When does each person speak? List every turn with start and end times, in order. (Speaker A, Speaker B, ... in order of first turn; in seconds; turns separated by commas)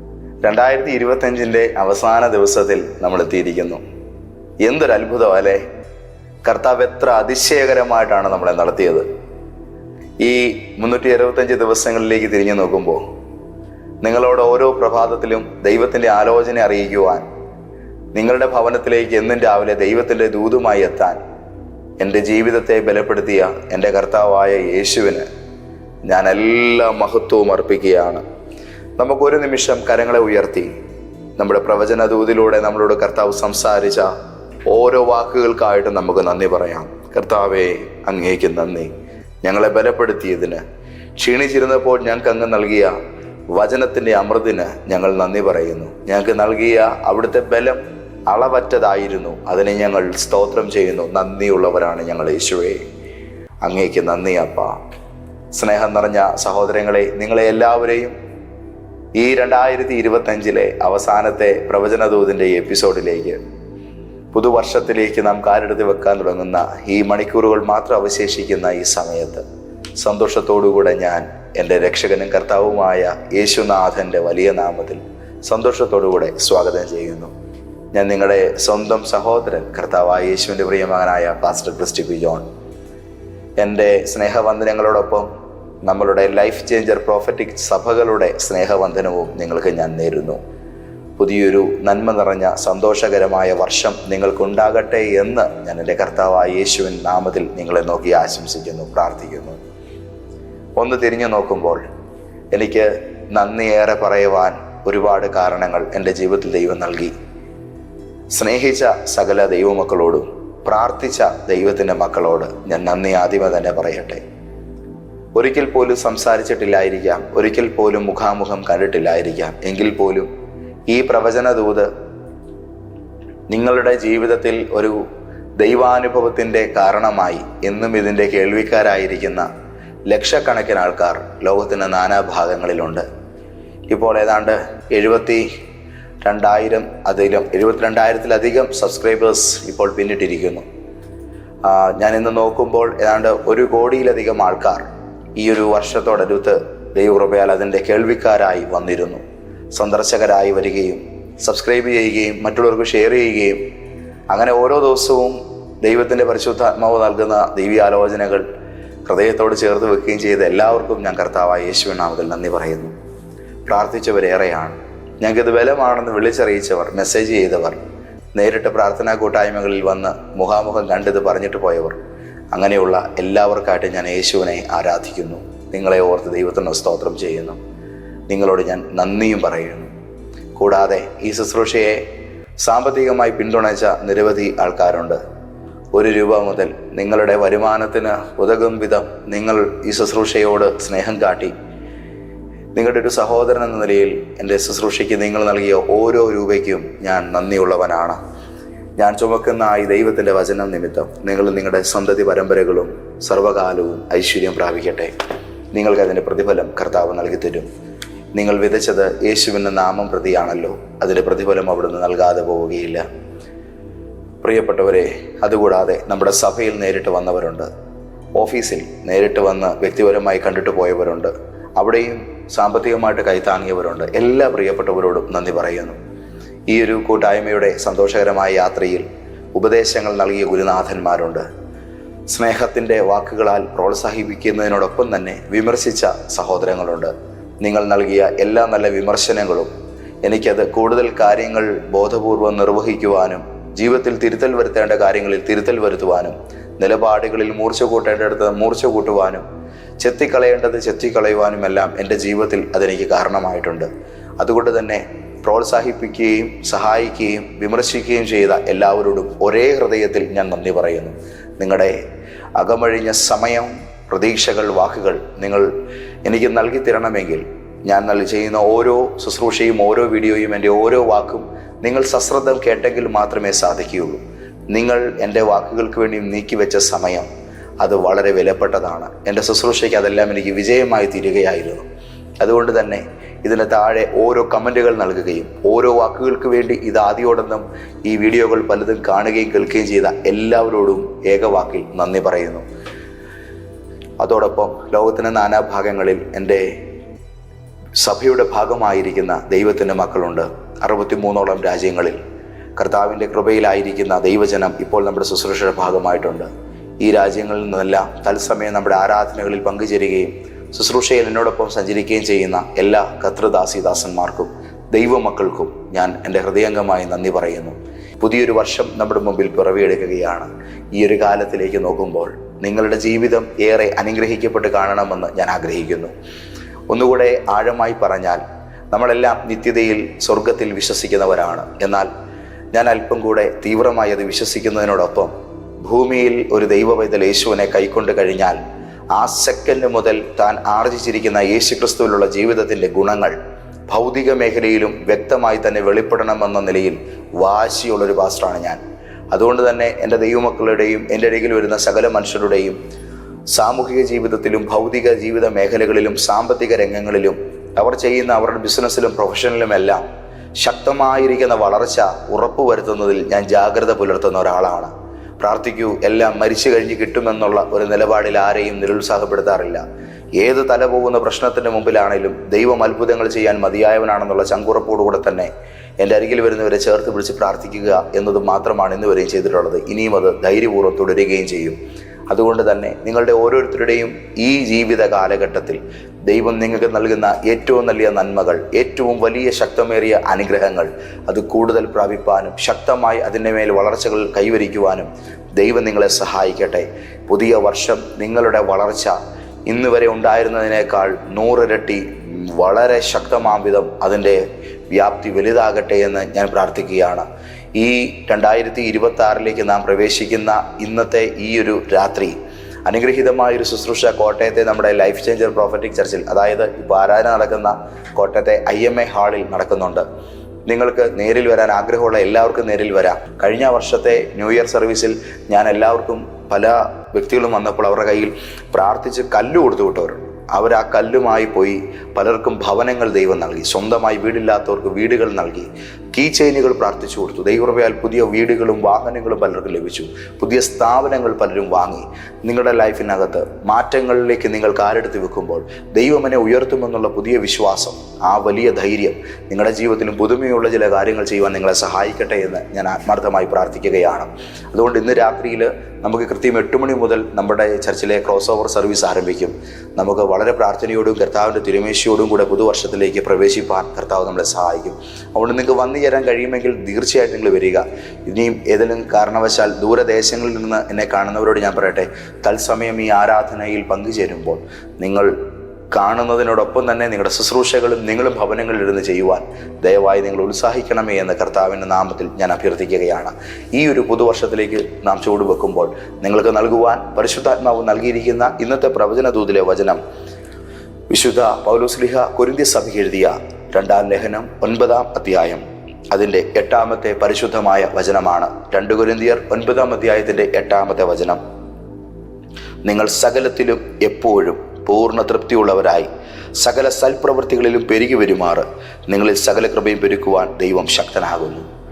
Speaker A: 0.4-3.8, Speaker A: 4.6-5.6, Speaker A: 6.4-9.1, Speaker A: 10.2-13.0, Speaker A: 14.0-17.2, Speaker A: 18.1-21.2, Speaker A: 22.0-25.3, Speaker A: 26.1-28.2, Speaker A: 29.0-30.7, Speaker A: 31.4-34.1, Speaker A: 34.7-38.9, Speaker A: 39.4-40.6, Speaker A: 41.2-42.9, Speaker A: 43.5-52.8, Speaker A: 53.6-54.7, Speaker A: 55.5-58.1, Speaker A: 59.2-63.4, Speaker A: 64.3-69.4, Speaker A: 70.0-77.3, Speaker A: 77.9-82.5, Speaker A: 83.6-85.3, Speaker A: 85.8-90.4, Speaker A: 91.2-99.6, Speaker A: 100.8-101.8, Speaker A: 102.5-107.1, Speaker A: 108.3-114.2, Speaker A: 115.4-120.3, Speaker A: 120.9-121.9, Speaker A: 123.5-125.0, Speaker A: 125.6-129.5, Speaker A: 130.1-133.0, Speaker A: 133.9-135.4, Speaker A: 136.2-140.7, Speaker A: 141.7-144.8, Speaker A: 145.4-149.2, Speaker A: 149.8-153.6, Speaker A: 154.3-158.4, Speaker A: 159.1-162.9, Speaker A: 163.7-167.8, Speaker A: 168.3-172.0, Speaker A: 172.5-177.6, Speaker A: 178.3-179.9, Speaker A: 180.6-182.0, Speaker A: 182.6-185.2, Speaker A: 185.9-191.5, Speaker A: 192.8-198.2, Speaker A: 199.0-205.1, Speaker A: 205.7-207.7, Speaker A: 208.3-213.0, Speaker A: 214.4-217.7, Speaker A: 218.4-226.0, Speaker A: 226.7-231.4, Speaker A: 232.3-239.7, Speaker A: 240.2-249.4, Speaker A: 250.0-253.9, Speaker A: 254.4-261.9, Speaker A: 262.6-265.7, Speaker A: 266.2-277.3, Speaker A: 277.8-281.9, Speaker A: 282.4-292.6, Speaker A: 294.2-296.6, Speaker A: 298.0-302.2, Speaker A: 302.8-306.5, Speaker A: 307.0-326.1, Speaker A: 326.9-332.1, Speaker A: 332.7-335.3, Speaker A: 335.8-338.6, Speaker A: 339.1-343.3, Speaker A: 343.9-348.8, Speaker A: 349.3-352.8, Speaker A: 353.5-360.0, Speaker A: 360.6-369.8, Speaker A: 370.4-381.8, Speaker A: 382.3-399.1, Speaker A: 399.7-420.0, Speaker A: 420.7-475.3, Speaker A: 475.9-490.0, Speaker A: 491.1-501.4, Speaker A: 502.9-511.6